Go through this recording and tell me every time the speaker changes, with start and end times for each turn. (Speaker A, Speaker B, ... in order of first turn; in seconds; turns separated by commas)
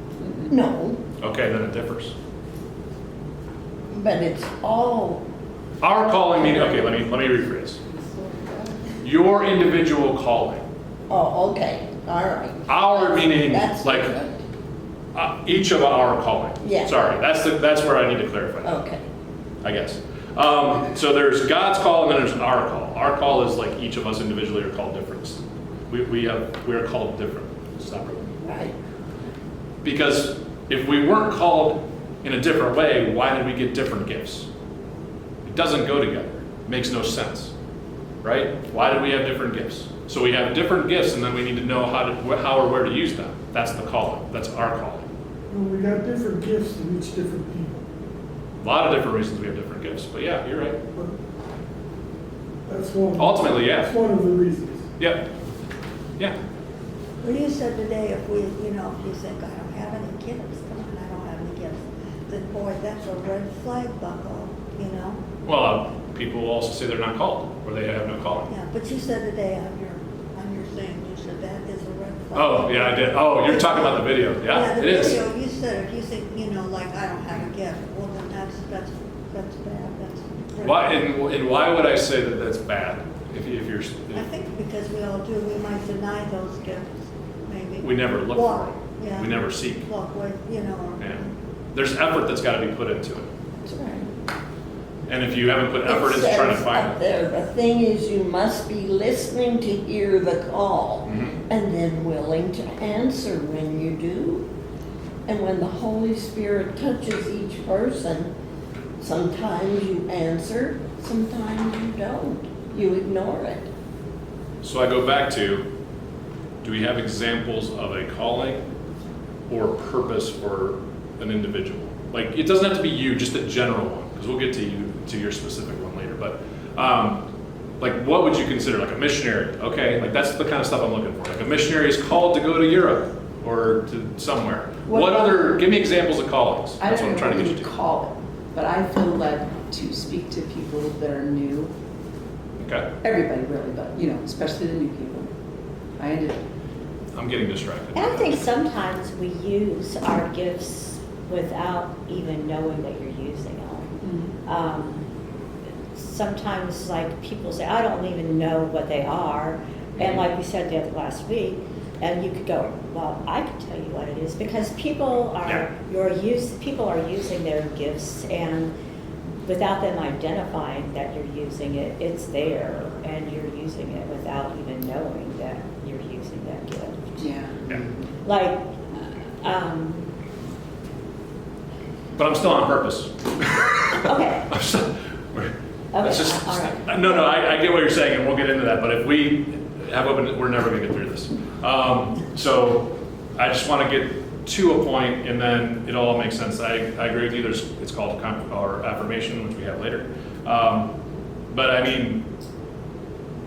Speaker A: 0.2-0.5, Speaker B: 0.4-1.0, Speaker C: 1.2-2.1, Speaker B: 3.9-5.2, Speaker C: 5.8-7.8, Speaker A: 7.9-8.9, Speaker C: 9.0-10.6, Speaker B: 11.1-14.4, Speaker C: 12.7-14.1, Speaker C: 15.1-18.8, Speaker B: 16.6-17.1, Speaker B: 18.6-19.0, Speaker C: 19.6-28.3, Speaker B: 28.4-28.7, Speaker C: 29.8-34.5, Speaker C: 35.4-37.5, Speaker C: 38.2-45.0, Speaker D: 45.5-47.8, Speaker C: 48.6-50.8, Speaker D: 52.7-54.8, Speaker C: 53.1-53.9, Speaker C: 55.0-55.3, Speaker E: 57.2-65.2, Speaker C: 65.4-68.5, Speaker E: 68.5-81.1, Speaker C: 72.3-75.2, Speaker C: 80.6-84.2, Speaker E: 84.1-91.3, Speaker C: 87.8-89.9, Speaker C: 91.7-93.3, Speaker B: 93.7-94.0, Speaker C: 95.1-97.0, Speaker B: 95.8-104.5, Speaker C: 101.0-101.4, Speaker B: 105.3-108.3, Speaker B: 109.0-113.7, Speaker C: 114.6-115.7, Speaker C: 116.6-118.6, Speaker C: 119.5-127.2, Speaker C: 127.8-137.7, Speaker A: 136.8-141.7, Speaker C: 142.6-142.9, Speaker A: 143.0-145.3, Speaker A: 146.0-146.4, Speaker C: 147.1-148.4, Speaker F: 147.9-153.9, Speaker A: 154.0-154.3, Speaker F: 154.4-155.1, Speaker F: 155.9-168.7, Speaker C: 160.0-160.2, Speaker F: 169.4-177.1, Speaker A: 177.2-178.1, Speaker F: 178.2-180.1, Speaker C: 182.2-200.9, Speaker F: 183.9-184.5, Speaker F: 185.9-187.5, Speaker C: 201.5-202.2